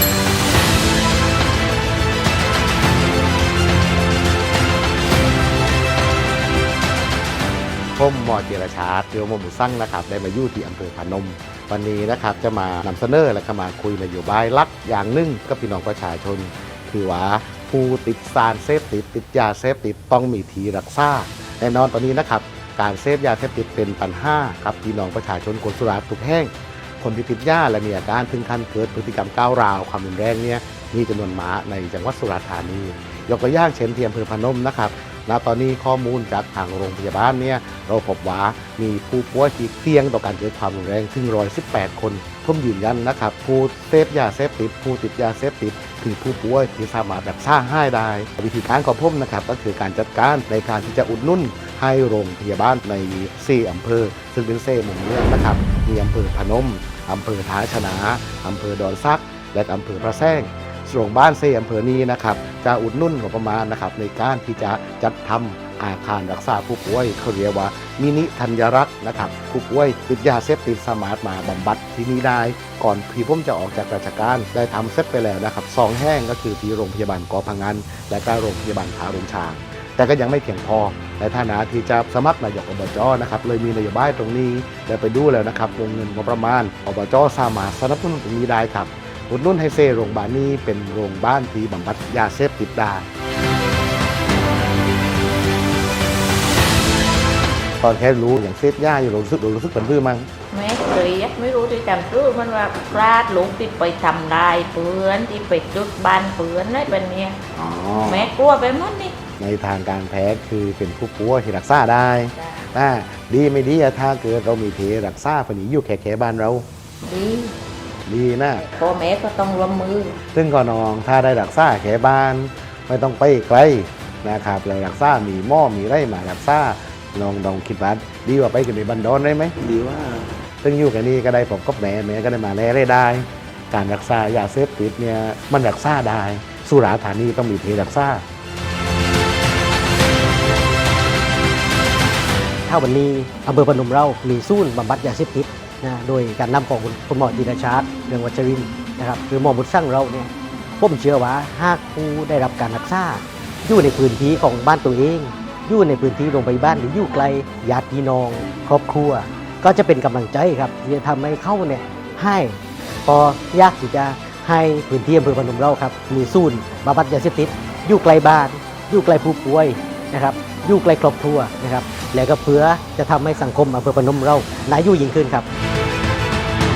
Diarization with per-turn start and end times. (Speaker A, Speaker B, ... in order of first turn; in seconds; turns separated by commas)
Speaker A: 8.0-93.1, Speaker A: 97.8-100.3, Speaker B: 100.5-107.4, Speaker A: 107.5-108.3, Speaker B: 108.0-109.1, Speaker A: 109.4-116.7, Speaker B: 117.0-117.5, Speaker A: 118.1-118.7, Speaker B: 118.5-120.2, Speaker A: 120.3-138.2, Speaker C: 142.7-175.4